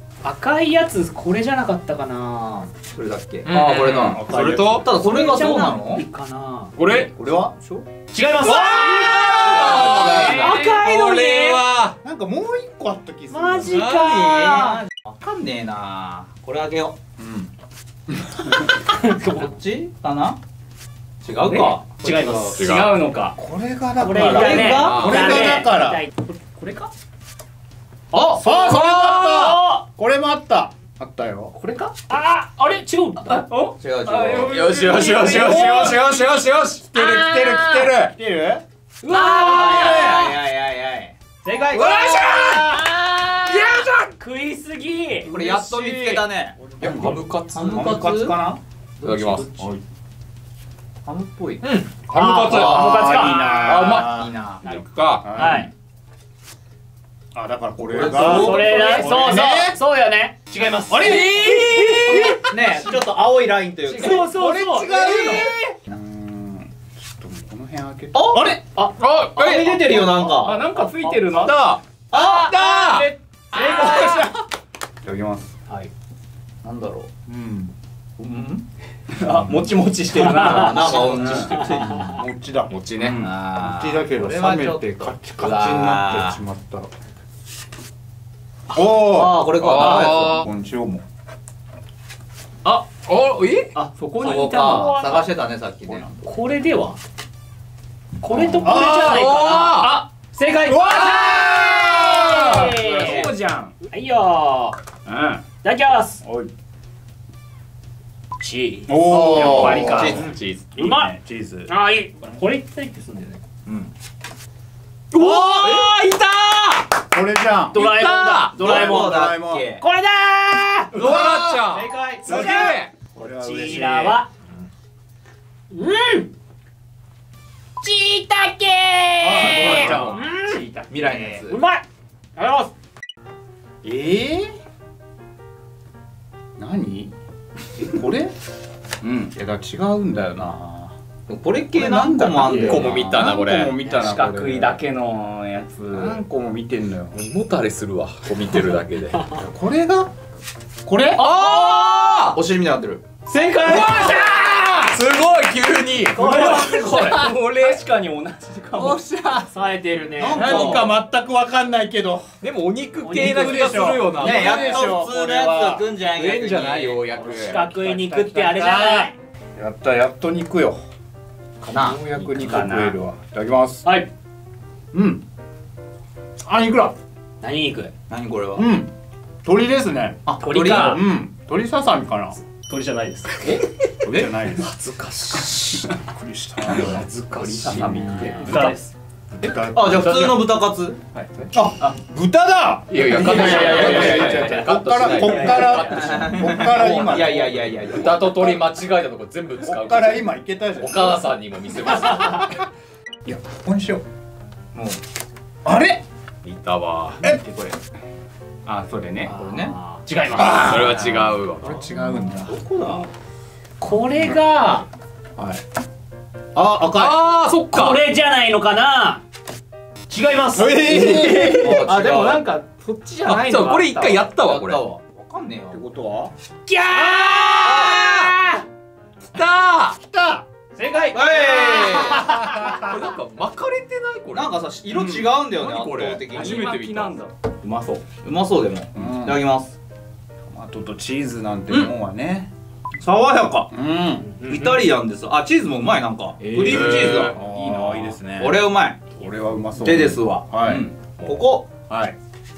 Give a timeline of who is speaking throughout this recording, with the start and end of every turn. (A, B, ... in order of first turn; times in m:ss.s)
0:00.2-0:02.7 A
0:02.9-0:06.0 B
0:03.4-0:04.8 C
0:04.1-0:04.8 D
0:04.9-0:07.1 A
0:06.8-0:07.1 C
0:07.1-0:07.8 B
0:07.2-0:07.5 D
0:08.1-0:11.6 A
0:08.4-0:10.4 B
0:08.5-0:12.0 C
0:12.0-0:13.8 D
0:13.3-0:14.8 A
0:13.7-0:14.6 C
0:14.2-0:17.0 B
0:17.2-0:17.5 D
0:18.1-0:18.7 D
0:18.9-0:19.5 A
0:19.3-0:20.4 B
0:21.2-0:22.6 B
0:21.4-0:23.4 E
0:22.5-0:23.0 C
0:23.3-0:26.0 D
0:24.0-0:26.1 A
0:24.1-0:25.6 B
0:24.7-0:25.6 C
0:26.4-0:26.9 E
0:28.1-0:29.8 A
0:28.2-0:31.5 D
0:31.5-0:31.9 E
0:32.1-0:33.5 A
0:33.2-0:35.9 E
0:33.8-0:35.0 B
0:34.2-0:38.1 C
0:34.8-0:36.0 A
0:36.9-0:37.9 A
0:38.0-0:38.6 D
0:39.0-0:40.3 A
0:39.1-0:42.1 B
0:39.2-0:40.3 D
0:41.4-0:45.3 A
0:41.7-0:42.9 C
0:43.4-0:44.1 C
0:45.2-0:48.3 C
0:45.3-0:49.7 B
0:46.8-0:48.6 D
0:49.0-0:49.7 C
0:51.0-0:51.6 B
0:51.6-0:55.3 C
0:52.2-0:54.3 D
0:52.2-0:54.6 B
0:52.4-0:53.7 A
0:54.6-0:55.7 A
0:55.2-0:55.7 D
0:57.3-0:59.8 D
0:57.9-0:58.4 C
0:57.9-0:59.4 B
0:58.0-1:02.4 A
1:00.9-1:02.8 D
1:01.0-1:02.5 C
1:02.5-1:04.3 B
1:03.8-1:05.7 A
1:04.0-1:08.7 D
1:04.9-1:05.4 C
1:08.1-1:08.5 B
1:09.0-1:09.9 C
1:09.3-1:10.6 B
1:09.9-1:10.3 D
1:09.9-1:11.6 E
1:11.0-1:11.5 A
1:11.3-1:11.8 C
1:12.1-1:14.3 A
1:12.1-1:13.0 B
1:12.3-1:13.1 C
1:13.5-1:14.4 D
1:15.0-1:15.6 D
1:16.6-1:17.1 B
1:17.2-1:17.7 D
1:18.2-1:18.6 B
1:19.1-1:22.1 E
1:20.2-1:21.8 A
1:20.3-1:22.2 B
1:21.5-1:26.9 D
1:22.7-1:23.2 C
1:23.0-1:23.3 E
1:23.2-1:26.4 B
1:28.7-1:31.0 D
1:28.7-1:30.4 B
1:29.5-1:30.4 C
1:32.9-1:33.7 C
1:33.7-1:35.3 A
1:33.9-1:35.0 E
1:34.1-1:36.2 B
1:35.9-1:36.2 D
1:36.2-1:37.0 A
1:38.2-1:43.3 A
1:38.3-1:39.3 D
1:38.6-1:40.0 C
1:40.7-1:42.8 D
1:41.1-1:41.6 C
1:42.8-1:43.7 E
1:42.8-1:43.3 B
1:43.8-1:44.8 A
1:45.0-1:45.4 E
1:45.6-1:46.2 A
1:46.2-1:46.5 D
1:48.4-1:50.2 A
1:48.9-1:51.7 D
1:49.3-1:50.2 E
1:49.6-1:50.7 C
1:49.6-1:50.4 B
1:50.8-1:51.1 A
1:51.7-1:53.4 A
1:53.6-1:53.9 B
1:55.1-1:56.9 C
1:55.4-1:55.9 B
1:57.1-1:57.8 D
1:57.7-2:00.9 A
1:57.7-1:58.6 C
1:58.5-1:59.8 B
1:58.6-1:59.6 D
2:00.9-2:01.6 D
2:00.9-2:02.9 C
2:01.7-2:02.7 B
2:02.2-2:04.2 D
2:02.3-2:02.6 A
2:03.2-2:04.3 A
2:05.7-2:06.3 A
2:07.8-2:10.6 A
2:09.2-2:10.2 D
2:09.4-2:10.3 C
2:09.8-2:11.3 E
2:10.9-2:11.6 B
2:11.3-2:11.8 A
2:12.4-2:12.7 A
2:13.8-2:14.5 D
2:16.6-2:17.1 D
2:17.8-2:18.3 D
2:19.0-2:19.3 E
2:19.3-2:20.9 D
2:21.3-2:23.3 B
2:21.7-2:24.8 D
2:22.4-2:23.7 C
2:23.8-2:24.1 A
2:23.8-2:26.2 E
2:25.9-2:27.2 D
2:27.1-2:29.3 C
2:29.3-2:30.1 D
2:30.8-2:31.2 D
2:31.1-2:32.4 C
2:31.2-2:33.0 B
2:33.3-2:34.9 A
2:33.6-2:37.8 C
2:36.1-2:39.0 E
2:38.7-2:42.3 D
2:39.5-2:40.6 A
2:40.2-2:40.9 B
2:40.3-2:40.9 C
2:42.4-2:44.9 C
2:43.0-2:44.0 A
2:43.1-2:45.9 D
2:44.1-2:47.1 B
2:46.0-2:47.7 C
2:47.2-2:50.8 D
2:47.2-2:49.1 A
2:51.6-2:53.9 D
2:51.7-2:52.0 B
2:52.2-2:53.0 E
2:54.9-2:55.2 D
2:56.4-2:56.9 D
2:57.4-2:57.9 A
2:58.1-2:58.7 B
2:58.5-2:58.9 D
2:59.4-3:00.2 D
3:00.2-3:01.0 B
3:00.4-3:01.0 E
3:00.8-3:02.4 D
3:02.4-3:03.6 A
3:03.4-3:04.3 B
3:04.0-3:04.7 D
3:04.6-3:05.9 C
3:05.9-3:07.1 D
3:06.8-3:08.7 C
3:07.3-3:08.8 E
3:07.8-3:08.7 D
3:07.9-3:08.9 A
3:09.4-3:10.4 D
3:09.6-3:11.0 B
3:11.1-3:11.5 C
3:11.5-3:18.6 D
3:12.9-3:16.5 C
3:13.2-3:14.5 B
3:13.2-3:14.6 A
3:13.5-3:14.1 E
3:14.9-3:16.2 E
3:15.1-3:18.5 B
3:17.9-3:22.6 C
3:19.6-3:21.2 D
3:21.9-3:22.6 D
3:23.2-3:24.0 D
3:24.7-3:25.0 B
3:25.6-3:26.0 D
3:26.4-3:27.2 C
3:27.2-3:27.8 E
3:28.6-3:29.4 E
3:29.2-3:31.0 A
3:29.3-3:29.8 B
3:30.3-3:32.6 D
3:30.4-3:31.8 C
3:31.9-3:33.1 B
3:32.4-3:33.0 E
3:33.8-3:34.8 A
3:35.4-3:35.6 D
3:36.5-3:37.2 D
3:36.8-3:38.0 C
3:37.6-3:39.2 A
3:40.1-3:41.1 A
3:40.5-3:41.9 D
3:40.9-3:44.2 E
3:41.1-3:42.4 C
3:41.6-3:42.5 B
3:43.2-3:44.8 C
3:44.3-3:45.8 B
3:45.7-3:46.3 D
3:46.6-3:48.6 A
3:47.1-3:48.3 C
3:47.6-3:48.0 B
3:49.2-3:50.0 C
3:50.0-3:50.4 D
3:50.8-3:52.8 A
3:51.1-3:52.3 B
3:51.7-3:53.0 D
3:52.6-3:57.2 C
3:54.3-3:56.7 B
3:56.3-3:58.0 E
3:58.2-3:59.8 B
3:58.9-3:59.4 D
4:00.5-4:02.5 D
4:03.0-4:03.7 B
4:03.7-4:04.3 D
4:04.2-4:04.8 A
4:04.4-4:07.3 B
4:06.4-4:08.2 E
4:06.6-4:07.3 C
4:07.3-4:11.3 D
4:08.4-4:09.1 B
4:09.8-4:11.7 B
4:11.9-4:12.2 D